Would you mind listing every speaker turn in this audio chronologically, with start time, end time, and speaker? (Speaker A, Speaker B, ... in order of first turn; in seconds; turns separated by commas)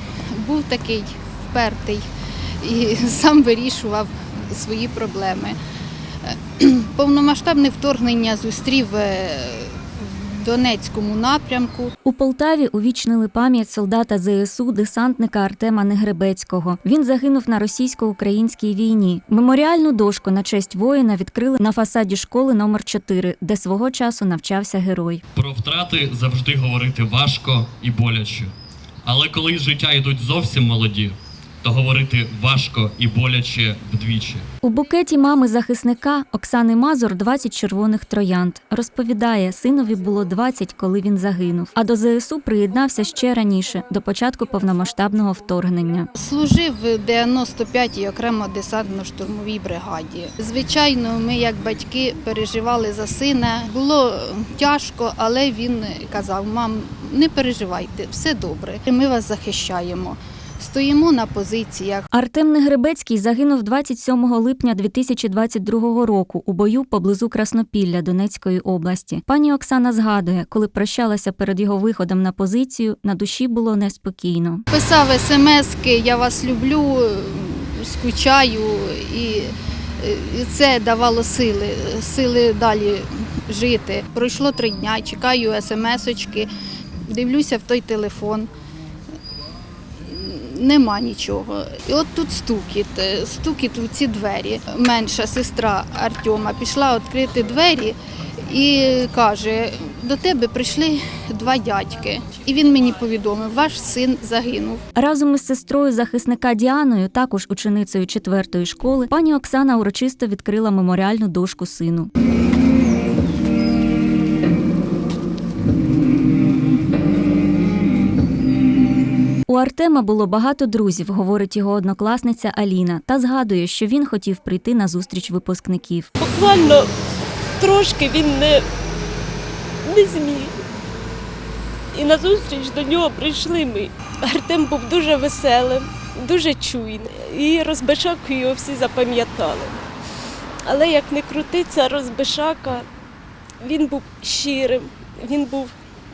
Speaker A: 0.3-2.0, Speaker A: 2.6-5.6, Speaker A: 6.2-11.9, Speaker B: 12.0-25.2, Speaker C: 25.4-28.5, Speaker C: 29.1-34.5, Speaker B: 34.6-46.1, Speaker A: 46.1-62.1, Speaker B: 62.1-74.6, Speaker A: 74.7-86.5, Speaker A: 87.1-88.5, Speaker A: 90.0-104.8, Speaker B: 105.0-112.1, Speaker B: 119.5-126.1, Speaker D: 126.2-126.9, Speaker D: 127.6-128.7, Speaker D: 129.8-130.6, Speaker D: 131.9-139.8, Speaker D: 140.7-142.9, Speaker D: 143.6-145.7